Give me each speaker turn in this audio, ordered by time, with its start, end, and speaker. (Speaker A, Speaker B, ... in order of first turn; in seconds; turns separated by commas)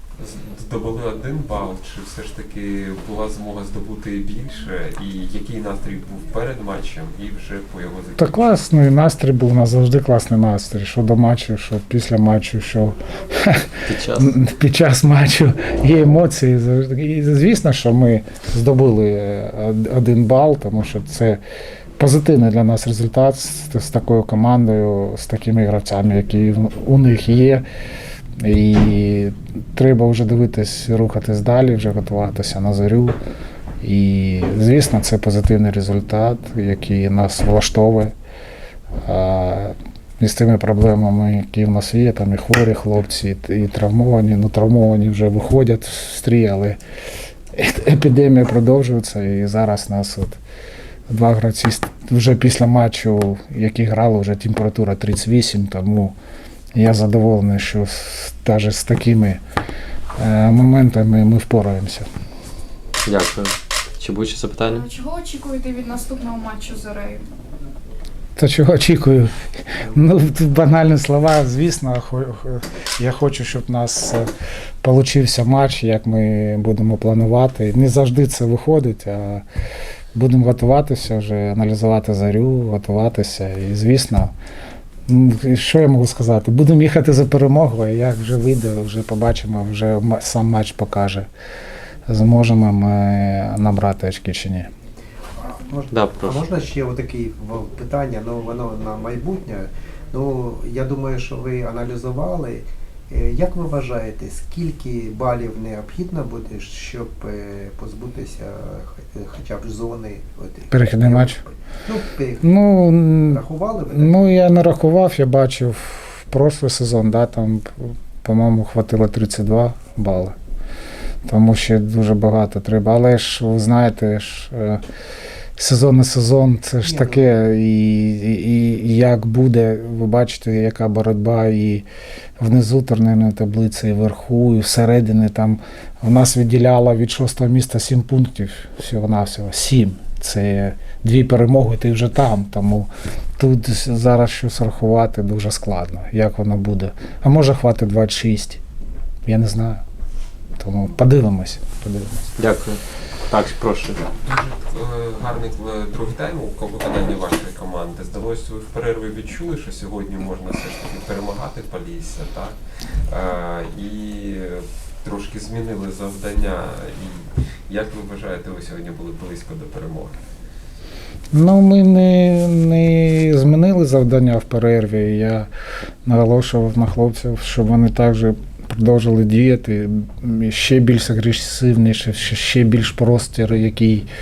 Speaker A: 0.2-8.5, Speaker B: 8.2-21.4, Speaker C: 13.8-14.2, Speaker B: 22.0-27.6, Speaker B: 28.4-33.2, Speaker B: 33.8-38.1, Speaker B: 39.0-46.8, Speaker B: 47.5-50.4, Speaker B: 51.1-56.1, Speaker B: 56.7-59.4, Speaker B: 60.2-62.1, Speaker C: 63.0-64.8, Speaker D: 64.6-67.3, Speaker B: 68.3-74.3, Speaker B: 74.8-79.4, Speaker B: 80.1-84.3, Speaker B: 85.1-91.3, Speaker B: 92.1-94.7, Speaker E: 95.4-112.5, Speaker C: 95.9-96.4, Speaker B: 110.7-111.4, Speaker B: 112.4-120.3, Speaker E: 113.3-114.1, Speaker B: 121.2-124.8, Speaker B: 125.6-131.8, Speaker E: 126.8-127.2, Speaker B: 132.4-148.6, Speaker B: 149.2-149.8, Speaker B: 150.6-152.3, Speaker C: 152.4-154.0, Speaker A: 154.2-170.1, Speaker B: 171.3-175.5, Speaker B: 176.1-184.1